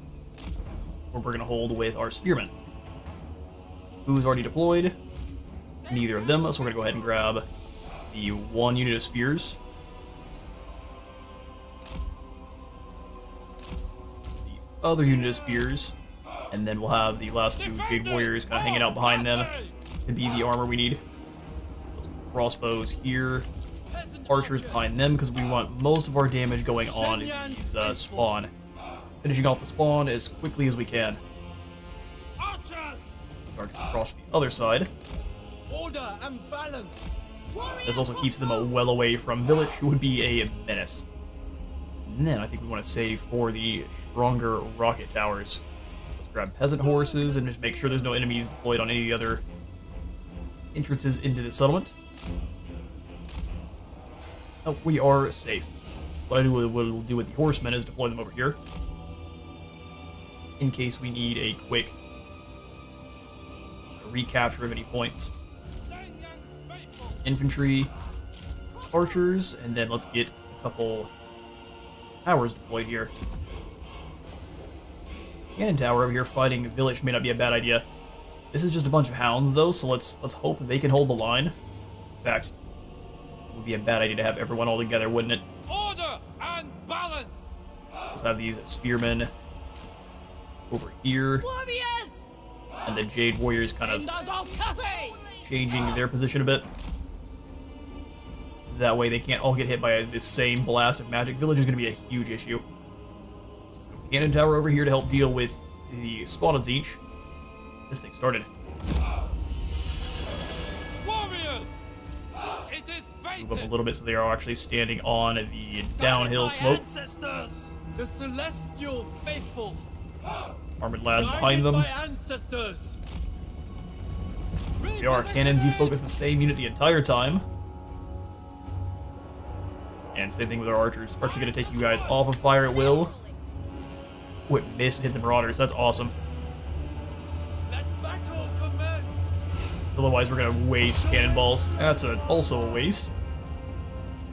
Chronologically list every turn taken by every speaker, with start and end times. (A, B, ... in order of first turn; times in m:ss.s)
0:01.1-0:02.5 A
0:04.0-0:05.0 A
0:05.8-0:07.0 B
0:05.9-0:07.4 A
0:08.1-0:09.6 A
0:14.4-0:15.9 A
0:16.5-0:19.5 A
0:20.0-0:21.0 A
0:22.0-0:23.5 A
0:23.9-0:24.9 C
0:24.3-0:28.5 A
0:26.8-0:28.3 C
0:29.2-0:31.2 A
0:32.4-0:33.3 C
0:33.5-0:34.9 A
0:35.7-0:37.1 C
0:37.5-0:38.7 B
0:37.8-0:41.0 A
0:42.0-0:45.6 A
0:46.2-0:49.4 A
0:46.9-0:47.4 C
0:50.7-0:51.9 A
0:54.6-0:55.7 A
0:56.3-0:58.6 A
1:00.6-1:01.9 A
1:04.0-1:05.3 A
1:05.9-1:07.1 C
1:07.2-1:07.9 A
1:08.8-1:11.1 A
1:12.2-1:13.1 A
1:15.6-1:17.8 A
1:18.5-1:21.5 A
1:22.2-1:22.5 A
1:23.5-1:25.4 A
1:25.7-1:27.5 C
1:28.1-1:29.3 A
1:30.7-1:31.4 A
1:31.4-1:32.3 B
1:32.8-1:34.1 A
1:33.9-1:35.4 B
1:35.4-1:36.6 A
1:38.7-1:42.6 A
1:43.7-1:47.0 A
1:47.9-1:48.5 A
1:51.0-1:51.7 C
1:52.7-1:53.3 C
1:53.3-1:56.8 A
1:56.0-1:59.8 C
2:00.8-2:01.9 A
2:01.1-2:03.0 C
2:04.9-2:07.4 A
2:10.1-2:13.1 A
2:11.5-2:13.4 B
2:14.5-2:16.1 A
2:17.6-2:19.2 C
2:19.9-2:23.1 A
2:21.2-2:21.4 C